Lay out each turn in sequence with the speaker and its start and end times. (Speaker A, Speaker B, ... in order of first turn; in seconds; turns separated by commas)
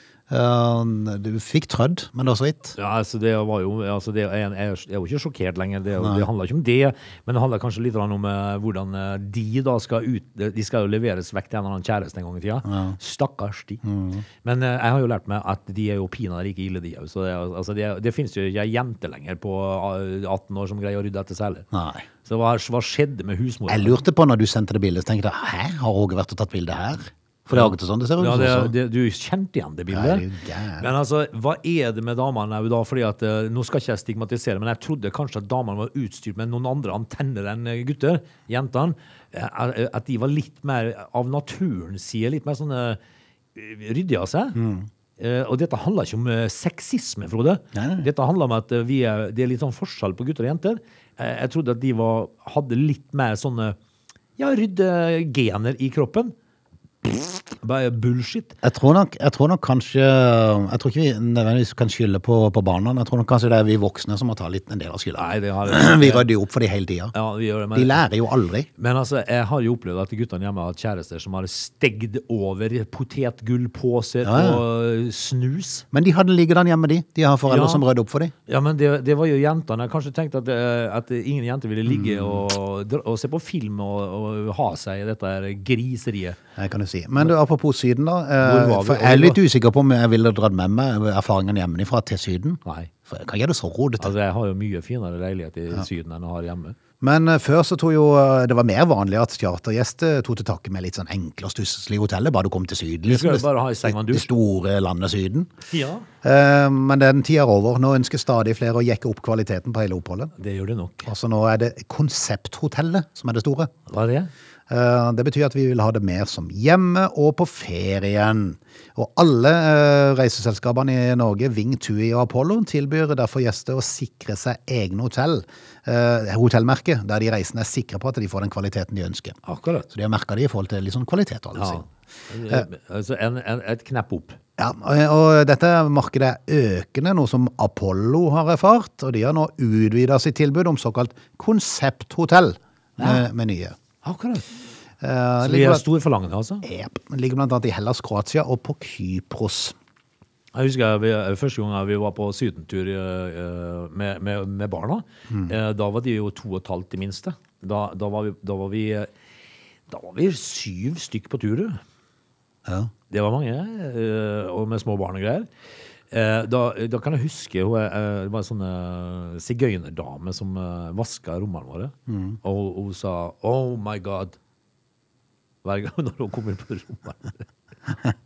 Speaker A: 0.3-2.8, Speaker B: 2.8-13.8, Speaker A: 6.0-6.3, Speaker A: 12.6-13.0, Speaker A: 13.8-14.2, Speaker B: 14.4-21.7, Speaker A: 21.7-22.1, Speaker B: 22.2-24.0, Speaker A: 23.7-28.7, Speaker B: 27.5-30.3, Speaker A: 29.9-30.9, Speaker B: 30.8-43.0, Speaker B: 43.5-44.6, Speaker A: 44.5-44.9, Speaker B: 45.2-53.8, Speaker A: 47.7-48.1, Speaker B: 54.4-56.3, Speaker B: 57.0-58.6, Speaker A: 58.6-67.1, Speaker B: 65.1-66.3, Speaker B: 67.1-68.0, Speaker A: 67.7-68.7, Speaker B: 68.8-75.8, Speaker A: 74.2-74.6, Speaker A: 75.9-78.3, Speaker B: 77.5-77.9, Speaker B: 78.5-86.4, Speaker A: 81.9-82.4, Speaker A: 86.5-94.1, Speaker B: 88.4-89.4, Speaker B: 92.6-92.9, Speaker B: 94.0-96.8, Speaker A: 97.0-105.5, Speaker B: 103.1-104.3, Speaker B: 105.7-106.1, Speaker A: 106.2-110.3, Speaker B: 110.4-111.1, Speaker A: 111.0-113.7, Speaker B: 113.9-114.3, Speaker A: 114.7-129.4, Speaker B: 129.4-129.9, Speaker A: 129.9-131.9, Speaker B: 131.5-134.4, Speaker A: 134.6-143.8, Speaker B: 143.0-143.2, Speaker B: 144.0-144.4, Speaker A: 145.0-145.8, Speaker B: 145.4-146.6, Speaker A: 146.6-149.7, Speaker B: 150.5-159.1, Speaker B: 159.9-161.8, Speaker A: 162.7-162.9, Speaker B: 163.1-165.5, Speaker B: 166.1-174.4, Speaker A: 172.1-172.4, Speaker B: 175.6-177.4